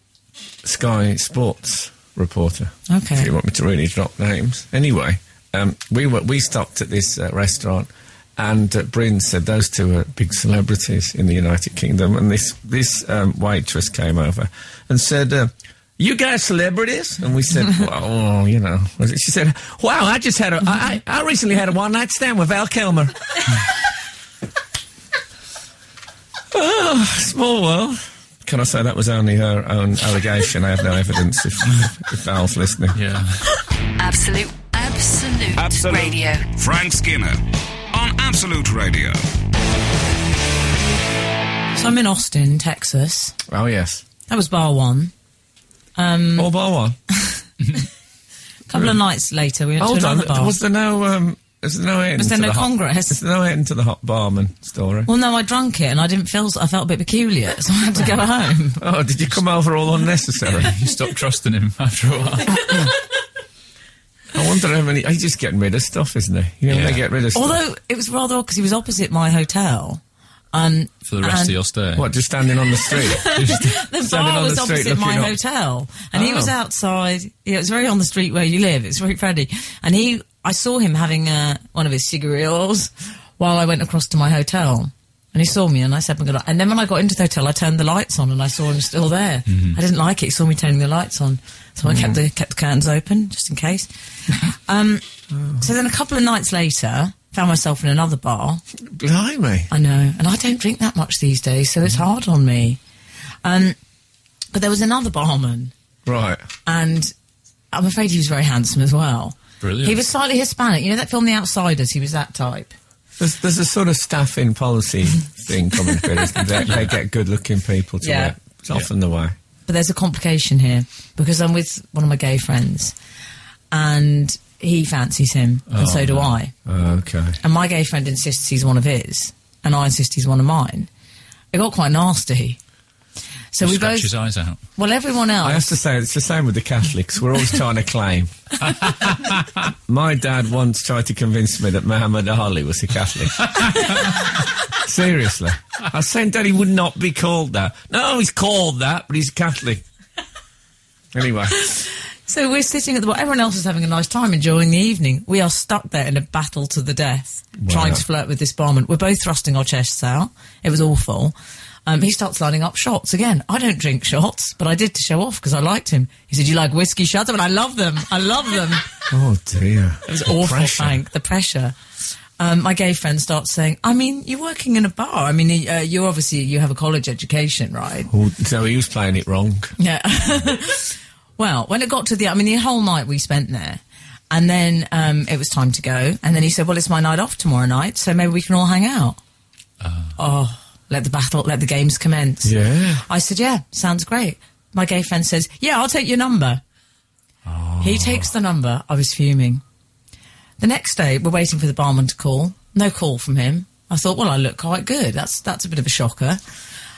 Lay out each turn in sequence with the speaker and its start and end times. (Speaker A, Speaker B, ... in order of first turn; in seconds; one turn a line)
Speaker A: 0.6-23.2
Speaker B: 2.9-3.3
Speaker A: 26.5-33.0
Speaker C: 32.9-33.5
Speaker D: 34.0-36.5
Speaker E: 35.6-39.2
Speaker B: 41.8-43.4
Speaker A: 43.5-44.0
Speaker B: 44.3-45.1
Speaker B: 46.0-46.5
Speaker A: 46.4-47.0
Speaker B: 47.2-47.8
Speaker B: 48.7-50.6
Speaker A: 49.8-55.1
Speaker B: 52.2-53.2
Speaker B: 55.1-58.8
Speaker A: 58.8-60.8
Speaker C: 60.6-62.8
Speaker A: 64.3-67.6
Speaker C: 66.7-67.0
Speaker B: 67.3-70.0
Speaker B: 70.5-71.6
Speaker C: 71.1-72.1
Speaker A: 72.0-75.4
Speaker B: 72.8-98.6
Speaker C: 73.3-73.8
Speaker A: 76.1-76.5
Speaker C: 89.5-89.8
Speaker A: 91.9-92.2
Speaker A: 98.9-99.7
Speaker B: 99.7-102.8
Speaker B: 103.4-103.8
Speaker B: 104.5-105.7
Speaker A: 106.1-106.5
Speaker B: 106.7-107.1
Speaker B: 107.7-112.7
Speaker C: 109.6-110.0
Speaker A: 113.2-119.4
Speaker B: 118.0-118.3
Speaker B: 119.7-123.0
Speaker B: 123.7-126.5
Speaker C: 125.7-126.3
Speaker A: 126.7-127.4
Speaker B: 127.4-130.9
Speaker B: 131.5-132.6
Speaker B: 133.5-134.1
Speaker C: 133.6-134.6
Speaker B: 134.8-135.7
Speaker A: 135.4-144.1
Speaker A: 144.7-149.8
Speaker A: 151.1-151.8
Speaker B: 151.6-161.3
Speaker A: 157.6-158.0
Speaker B: 161.9-168.9
Speaker A: 169.1-171.0
Speaker B: 170.1-171.8
Speaker B: 172.4-178.1
Speaker A: 178.1-179.7
Speaker B: 179.8-189.2
Speaker C: 189.8-190.1
Speaker B: 190.2-196.6
Speaker A: 192.4-193.0
Speaker A: 197.5-198.3
Speaker B: 197.8-199.6
Speaker B: 200.6-206.4